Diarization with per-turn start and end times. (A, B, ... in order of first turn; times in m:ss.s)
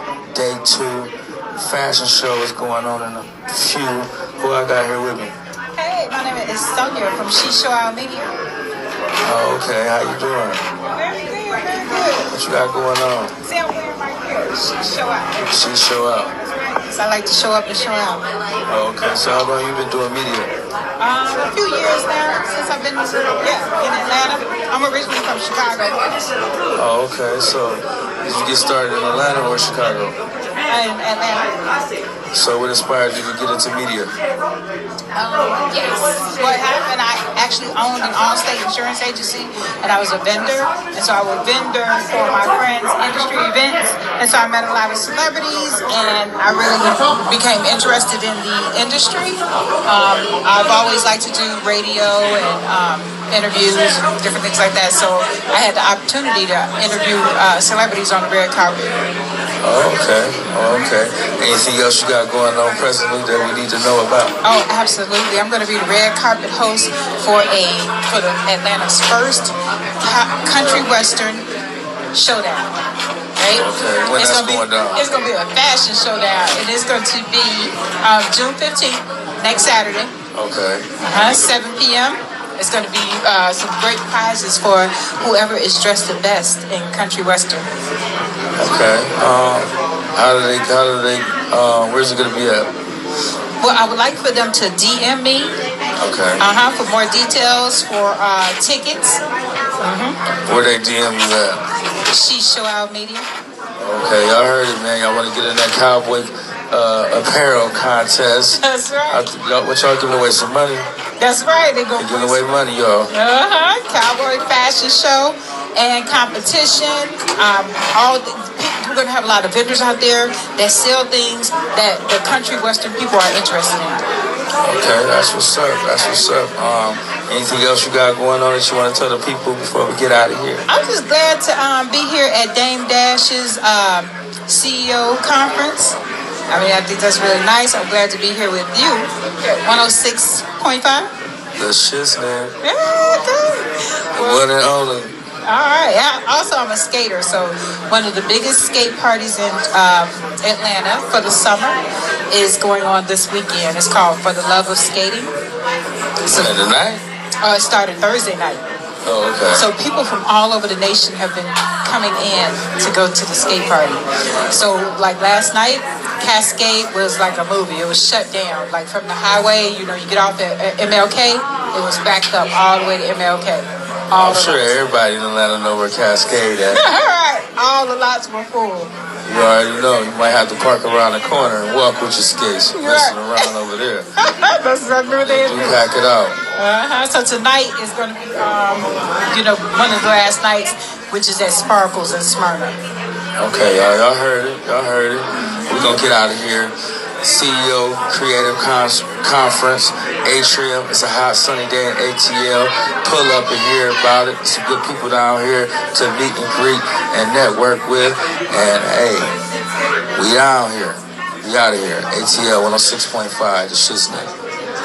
0:00.3-0:05.3 A
0:05.8-0:08.3 B
0:09.2-0:10.6 A
0:10.8-0:12.3 B
0:12.3-0:13.3 A
0:13.4-0:15.6 B
0:15.4-0:16.3 A
0:16.4-0:18.2 B
0:18.7-0:20.5 A
0:21.0-0:26.1 B
0:26.8-0:30.2 A
0:30.7-0:31.5 B
0:32.3-0:34.1 A
0:35.2-0:58.9 B
0:59.6-1:04.3 A
1:04.4-1:11.4 B
1:12.1-1:12.7 B
1:13.4-1:20.1 B
1:13.6-1:15.0 A
1:20.4-1:20.8 A
1:21.0-1:27.7 B
1:28.6-1:32.7 A
1:33.6-1:35.5 B
1:36.0-1:36.4 A
1:36.4-1:39.2 B
1:39.8-1:40.2 B
1:40.5-1:41.6 A
1:42.1-1:43.3 B
1:43.8-1:50.9 A
1:48.6-1:49.3 B
1:51.2-1:52.4 B
1:52.0-1:53.1 A
1:53.1-2:04.0 B
2:04.6-2:10.6 A
2:10.7-2:16.0 B
2:16.5-2:21.1 B
2:21.6-2:22.5 A
2:22.6-2:24.4 B
2:24.2-2:25.1 A
2:25.5-2:31.8 B
2:32.3-2:35.3 B
2:36.2-2:36.5 B
2:36.3-2:37.0 A
2:37.4-2:38.6 B
2:39.1-2:39.6 A
2:39.5-2:44.0 B
2:44.5-2:54.7 B
2:54.2-2:56.8 A
2:56.7-2:58.9 B
2:59.3-3:04.1 A
3:02.7-3:03.5 B
3:04.2-3:05.8 B
3:05.2-3:06.4 A
3:06.6-3:12.8 B
3:13.4-3:29.3 A
3:15.3-3:16.0 B
3:30.2-3:34.3 A